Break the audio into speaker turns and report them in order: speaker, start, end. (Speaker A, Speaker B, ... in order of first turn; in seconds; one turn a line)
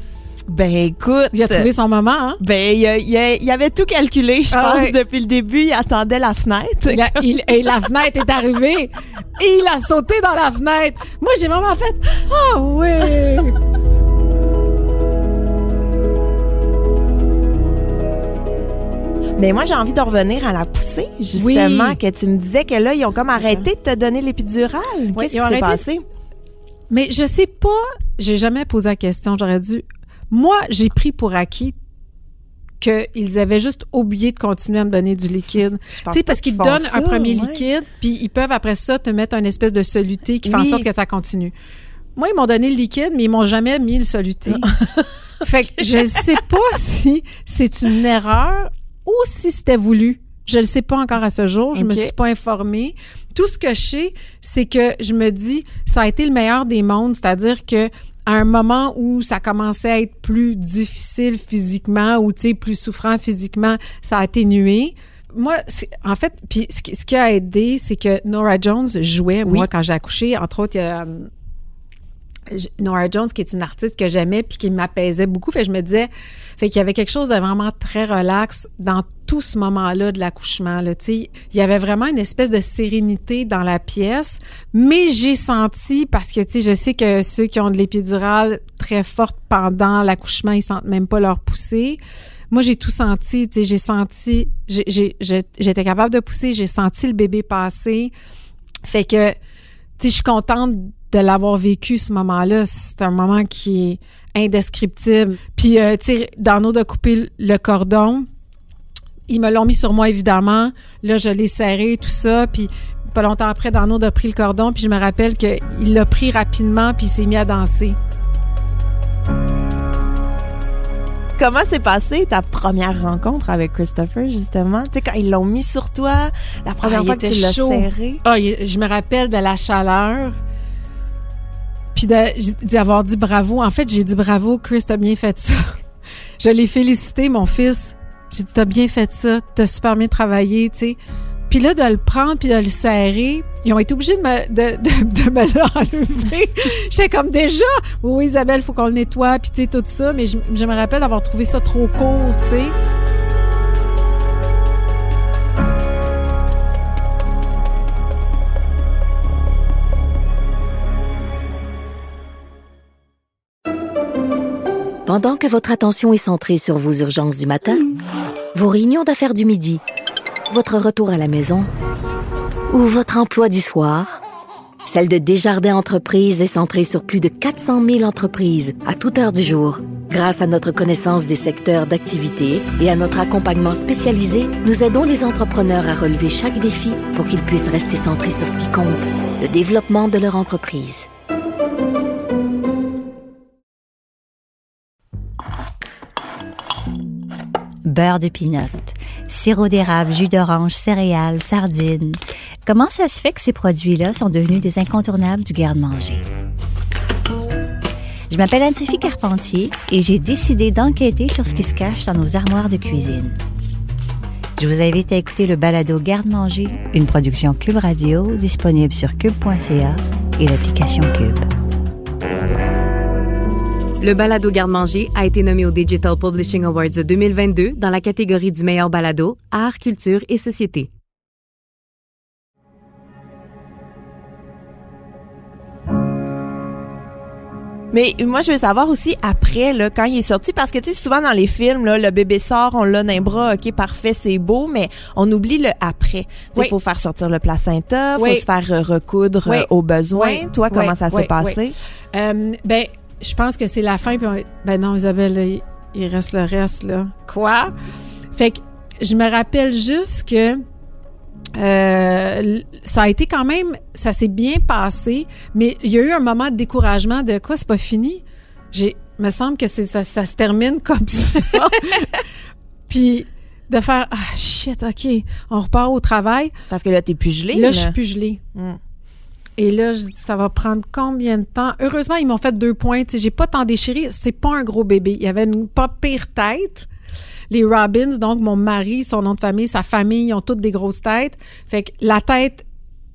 Speaker A: 0.5-1.7
Speaker B: 1.3-2.4
Speaker A: 2.4-7.2
Speaker B: 4.5-5.0
Speaker B: 6.9-13.6
Speaker A: 19.4-26.0
Speaker B: 21.3-22.0
Speaker B: 25.1-25.8
Speaker B: 26.9-31.7
Speaker B: 32.8-41.5
Speaker A: 36.0-37.6
Speaker A: 40.5-40.9
Speaker B: 42.2-44.7
Speaker B: 45.4-71.3
Speaker A: 51.7-52.1
Speaker B: 72.5-92.0
Speaker B: 92.5-98.1
Speaker B: 98.8-99.3
Speaker B: 100.0-108.2
Speaker B: 109.3-118.0
Speaker A: 121.4-128.2
Speaker B: 126.8-130.3
Speaker B: 131.9-135.8
Speaker B: 136.4-141.0
Speaker B: 141.5-152.7
Speaker C: 165.1-167.8
Speaker C: 168.5-169.8
Speaker C: 170.5-171.7
Speaker C: 172.7-174.1
Speaker C: 174.8-191.1
Speaker D: 197.8-206.2
Speaker D: 208.3-213.3
Speaker D: 214.6-221.5
Speaker E: 224.0-230.9
Speaker A: 237.9-251.7
Speaker B: 248.2-248.4
Speaker B: 249.4-251.6
Speaker B: 252.1-257.7
Speaker B: 258.3-260.6
Speaker B: 261.6-272.2
Speaker B: 272.9-276.5
Speaker A: 276.7-277.9
Speaker B: 277.5-278.4
Speaker B: 279.6-286.9
Speaker B: 287.5-292.6